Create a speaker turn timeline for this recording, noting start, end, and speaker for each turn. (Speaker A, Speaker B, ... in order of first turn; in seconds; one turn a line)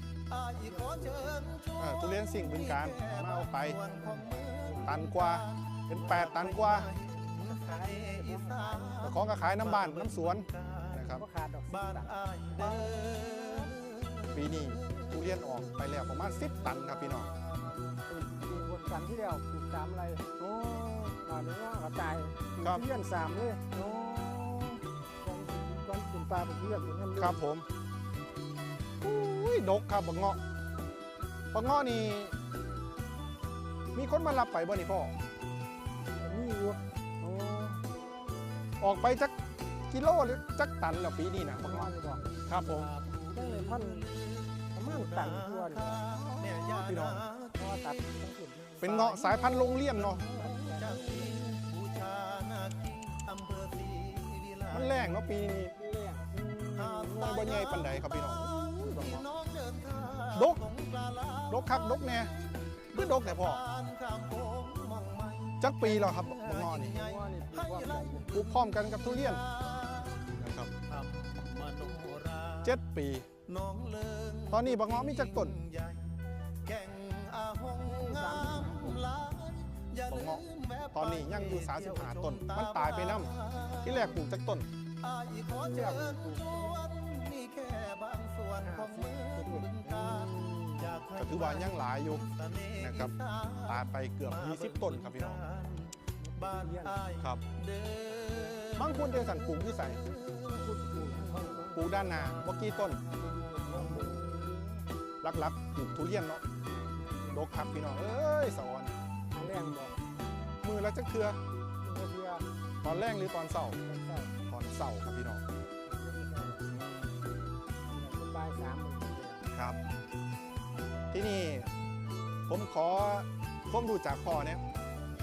Speaker A: 0.3-11.1
Speaker B: 0.5-1.4
Speaker C: 1.8-3.8
Speaker B: 3.6-5.1
Speaker C: 4.8-6.9
Speaker B: 6.2-6.5
Speaker B: 7.4-9.2
Speaker C: 9.0-11.2
Speaker B: 11.0-12.2
Speaker A: 11.7-15.1
Speaker C: 12.6-12.9
Speaker C: 14.3-17.3
Speaker B: 16.6-17.0
Speaker B: 17.9-20.3
Speaker C: 20.4-21.2
Speaker B: 21.2-23.6
Speaker C: 22.6-22.8
Speaker C: 23.7-24.8
Speaker B: 25.2-27.4
Speaker C: 27.1-27.6
Speaker C: 29.0-30.4
Speaker C: 31.5-32.4
Speaker C: 33.9-35.1
Speaker B: 36.1-36.8
Speaker C: 37.2-37.8
Speaker C: 38.8-39.4
Speaker C: 39.9-41.9
Speaker B: 41.5-42.4
Speaker C: 42.4-42.9
Speaker A: 42.5-47.6
Speaker B: 43.3-44.1
Speaker B: 44.7-46.1
Speaker C: 46.1-47.2
Speaker B: 47.5-51.5
Speaker C: 48.8-50.2
Speaker A: 49.9-55.1
Speaker C: 54.7-55.7
Speaker B: 55.3-56.3
Speaker C: 56.3-59.3
Speaker A: 56.8-70.3
Speaker C: 60.3-60.6
Speaker C: 61.5-62.3
Speaker C: 62.9-63.6
Speaker C: 65.6-67.0
Speaker B: 66.6-68.3
Speaker C: 68.3-69.4
Speaker C: 70.3-70.7
Speaker A: 70.8-72.8
Speaker C: 72.6-73.3
Speaker A: 73.4-84.2
Speaker C: 74.5-75.6
Speaker B: 77.8-79.1
Speaker C: 80.1-84.7
Speaker A: 85.0-101.7
Speaker B: 85.5-86.9
Speaker B: 88.6-91.0
Speaker C: 91.2-93.1
Speaker C: 93.7-95.4
Speaker B: 96.2-97.1
Speaker B: 98.2-98.6
Speaker C: 98.7-100.0
Speaker B: 100.5-104.8
Speaker C: 101.7-103.0
Speaker C: 103.7-104.2
Speaker C: 105.2-106.4
Speaker B: 106.6-107.5
Speaker C: 107.3-108.9
Speaker B: 109.3-110.0
Speaker C: 110.6-111.4
Speaker B: 111.8-112.5
Speaker C: 112.8-113.8
Speaker B: 113.8-114.4
Speaker C: 114.5-115.4
Speaker B: 115.8-116.6
Speaker C: 116.6-117.4
Speaker B: 117.9-119.5
Speaker C: 119.5-119.8
Speaker C: 121.1-121.7
Speaker C: 122.5-124.6